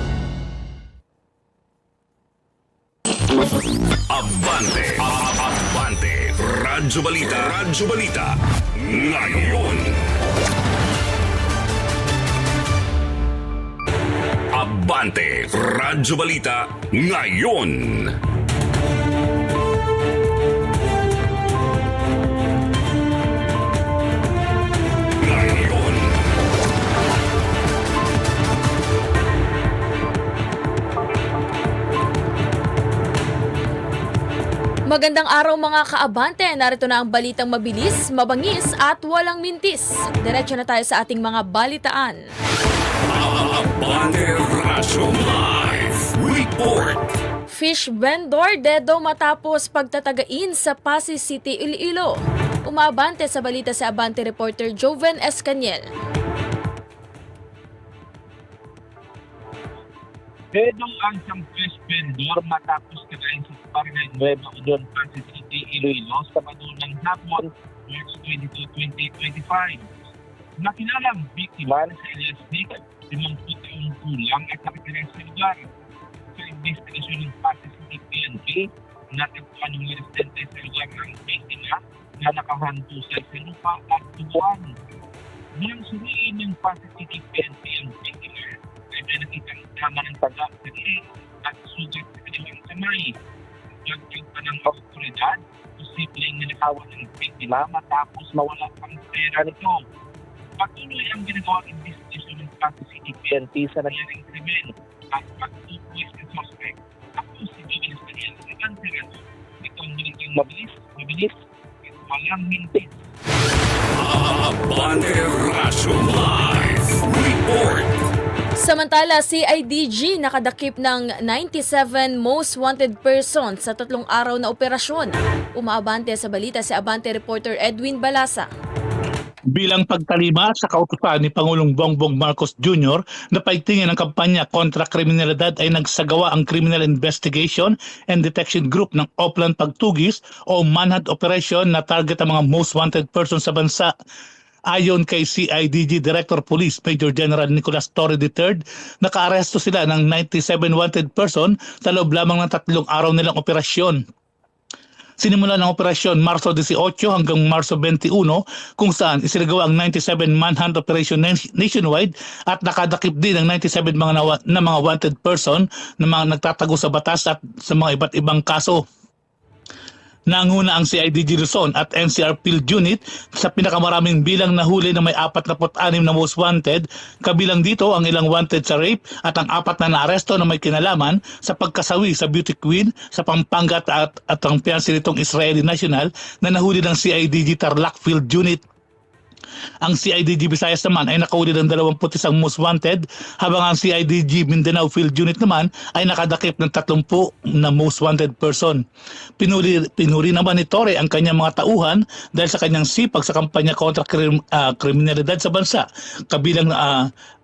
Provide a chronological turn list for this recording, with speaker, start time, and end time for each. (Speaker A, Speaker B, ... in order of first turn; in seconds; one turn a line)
Speaker A: 4.1-10.0
Speaker A: 14.5-18.2
Speaker A: 25.2-26.0
Speaker B: 34.9-42.2
Speaker A: 43.1-47.0
Speaker B: 47.5-55.8
Speaker C: 60.5-69.9
Speaker C: 70.6-75.7
Speaker C: 76.3-84.8
Speaker C: 85.5-93.2
Speaker C: 93.8-99.8
Speaker C: 100.6-113.0
Speaker A: 114.1-117.9
Speaker B: 118.6-128.5
Speaker D: 129.5-143.9
Speaker D: 144.7-154.0
Speaker D: 155.2-168.8
Speaker D: 170.3-188.6
Speaker D: 189.8-198.8
Speaker D: 199.4-207.1